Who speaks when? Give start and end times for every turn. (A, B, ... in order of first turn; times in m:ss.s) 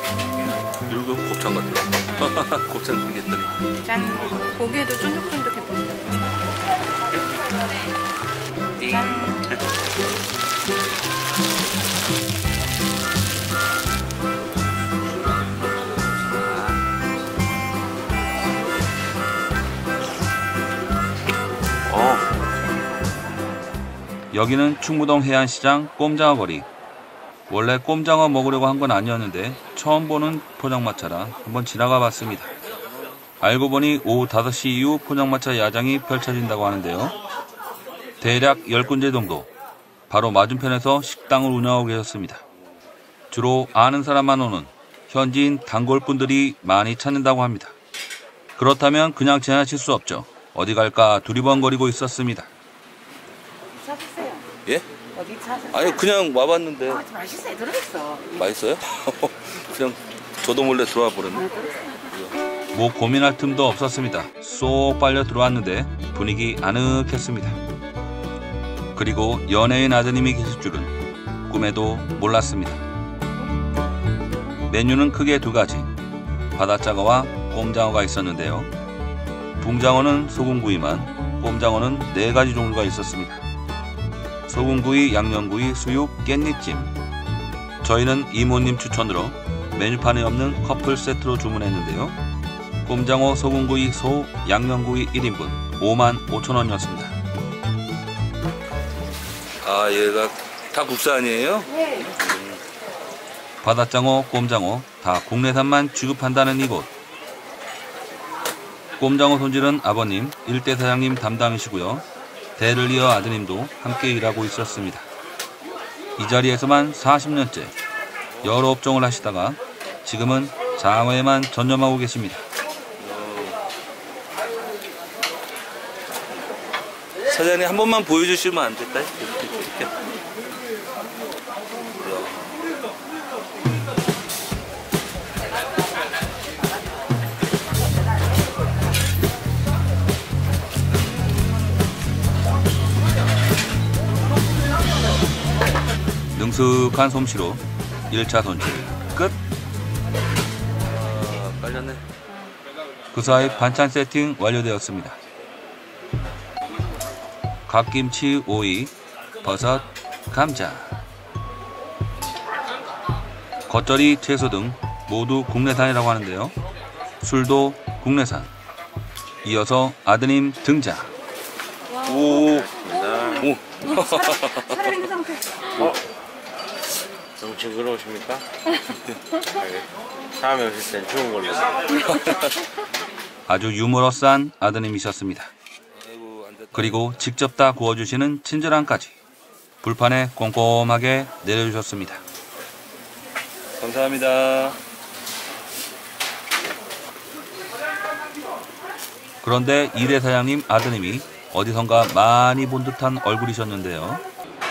0:00.9-0:03.6 A
0:03.9-0:06.1 B
0:08.8-0:09.6 A
0:09.0-0:09.3 B
0:16.4-0:16.8 A
0:21.8-0:22.3 A
0:24.3-0:26.7 C
0:27.5-0:32.5 C
0:33.4-0:37.2 C
0:38.2-0:39.5 C
0:40.1-0:42.4 C
0:43.3-0:47.7 C
0:48.6-0:52.5 C
0:55.6-0:57.1 A
0:58.1-1:01.5 A
1:02.7-1:07.6 C
1:08.9-1:11.0 C
1:11.5-1:12.8 C
1:14.7-1:15.9 C
1:16.6-1:18.7 C
1:19.6-1:23.4 C
1:24.5-1:26.9 C
1:27.8-1:32.2 C
1:32.8-1:37.1 C
1:39.6-1:42.6 A
1:43.6-1:46.9 C
1:49.0-1:52.0 C
1:52.6-1:55.0 C
1:56.2-1:57.7 C
1:58.4-2:02.4 C
2:03.0-2:03.6 A
2:07.3-2:09.7 A
2:11.9-2:12.4 A
2:26.3-2:29.4 C
2:30.8-2:32.0 A
2:33.1-2:35.2 C
2:37.7-2:41.0 C
2:43.7-2:46.5 C
2:47.2-2:48.5 C
2:49.4-2:51.1 C
2:52.0-2:52.7 A
2:52.5-2:53.4 D
2:53.3-2:55.1 A
2:54.9-2:55.4 B
2:57.4-2:58.4 D
2:59.6-2:59.8 D
3:00.4-3:01.8 D
3:02.1-3:02.5 A
3:03.5-3:05.5 C
3:05.9-3:07.0 A
3:06.7-3:09.2 C
3:09.8-3:12.2 C
3:13.8-3:14.8 A
3:19.4-3:24.2 C